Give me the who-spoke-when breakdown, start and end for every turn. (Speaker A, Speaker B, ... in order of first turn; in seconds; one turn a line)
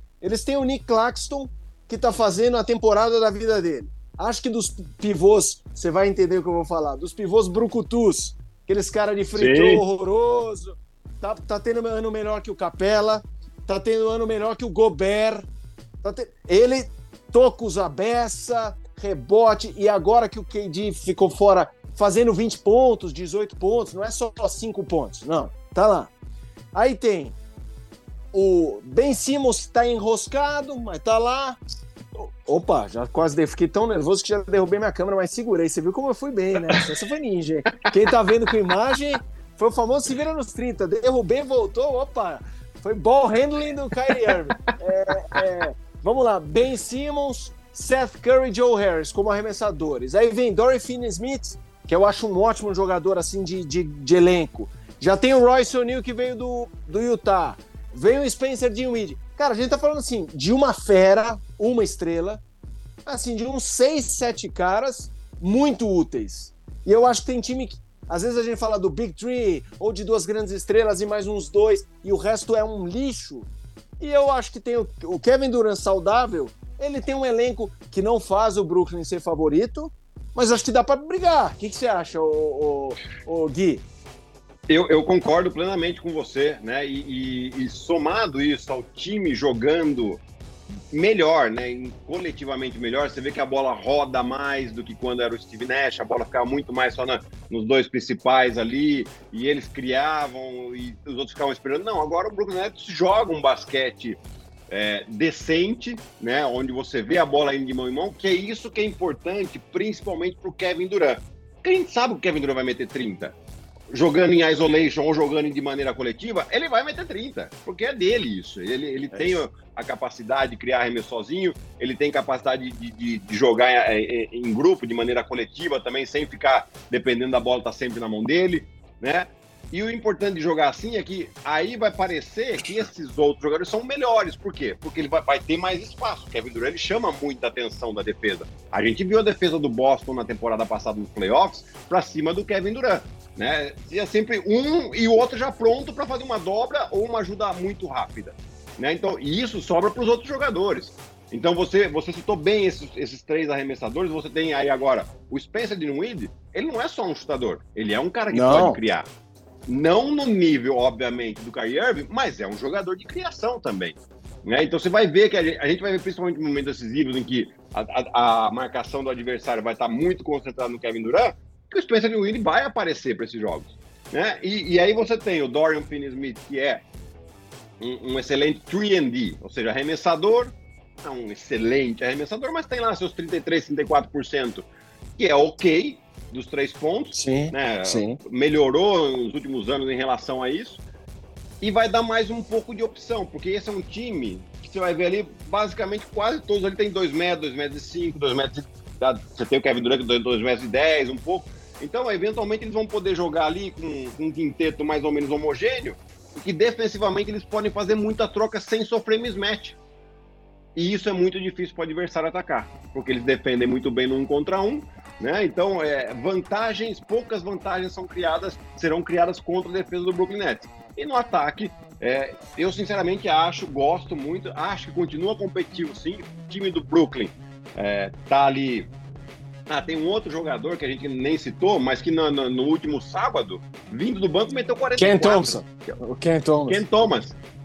Speaker A: 0.2-15.5
Speaker B: 9.3-9.8
Speaker A: 16.0-26.1
Speaker A: 26.7-27.4
Speaker A: 28.3-31.6
Speaker A: 32.2-62.4
Speaker A: 63.1-73.5
Speaker A: 74.0-83.8
Speaker B: 84.7-90.2
Speaker B: 90.9-113.4
Speaker B: 113.9-159.1
Speaker A: 119.2-119.4
Speaker A: 158.3-158.8
Speaker B: 159.7-176.8
Speaker B: 177.8-190.8
Speaker A: 187.1-188.2
Speaker B: 191.6-209.8
Speaker B: 210.8-228.9
Speaker B: 229.7-235.6
Speaker A: 235.0-236.8
Speaker B: 236.7-237.4